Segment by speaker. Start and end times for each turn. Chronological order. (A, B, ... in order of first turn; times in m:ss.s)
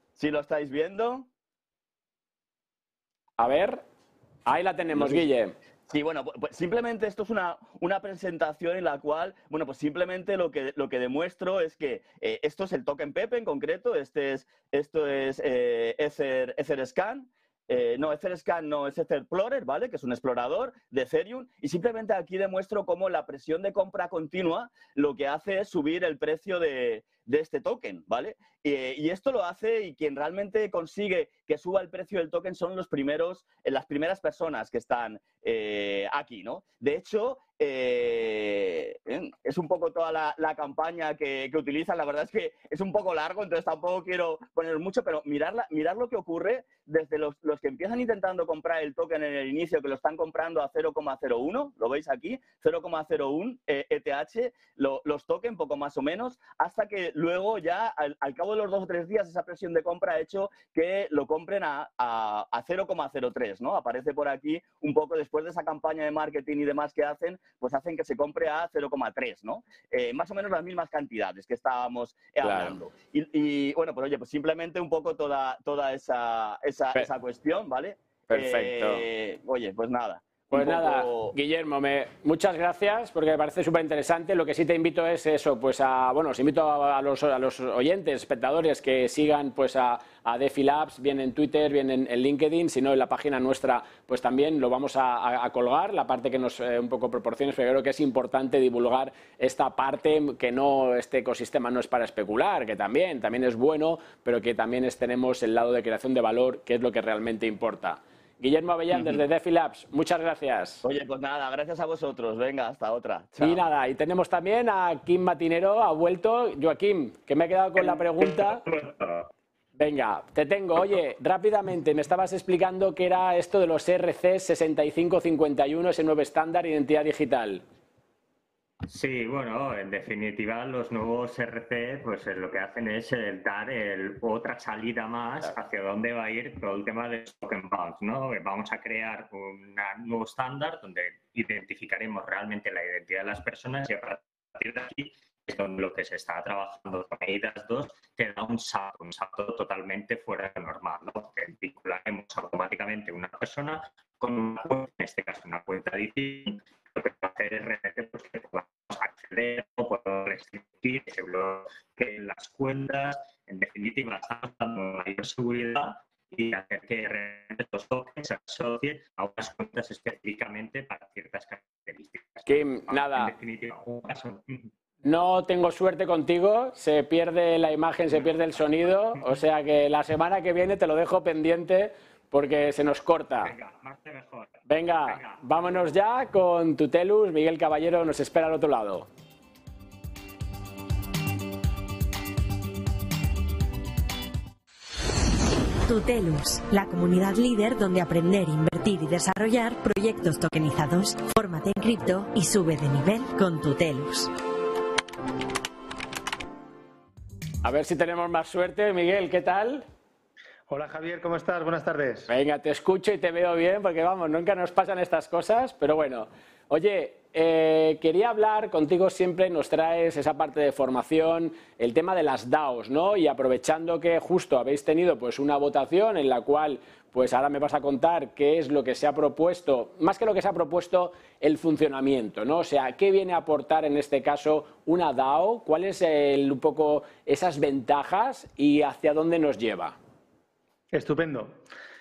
0:00.2-0:01.3 A
0:03.4-0:03.8 B
0:04.4-0:05.6 B
0:05.0-0:05.2 A
0:05.9-1:21.3 A
1:12.4-1:12.8 B
1:18.3-1:19.0 B
1:20.5-1:50.8 B
1:50.8-1:53.6 A
1:53.4-1:58.6 B
1:58.2-1:59.3 C
1:59.8-2:07.6 B
2:08.9-2:54.7 C
2:52.4-2:53.3 B
2:55.0-3:03.5 B
3:03.4-3:05.4 C
3:04.7-3:09.1 B
3:15.9-3:24.3 D
3:27.6-3:29.9 B
3:30.7-3:32.3 E
3:32.3-4:00.0 B
4:00.9-4:01.6 E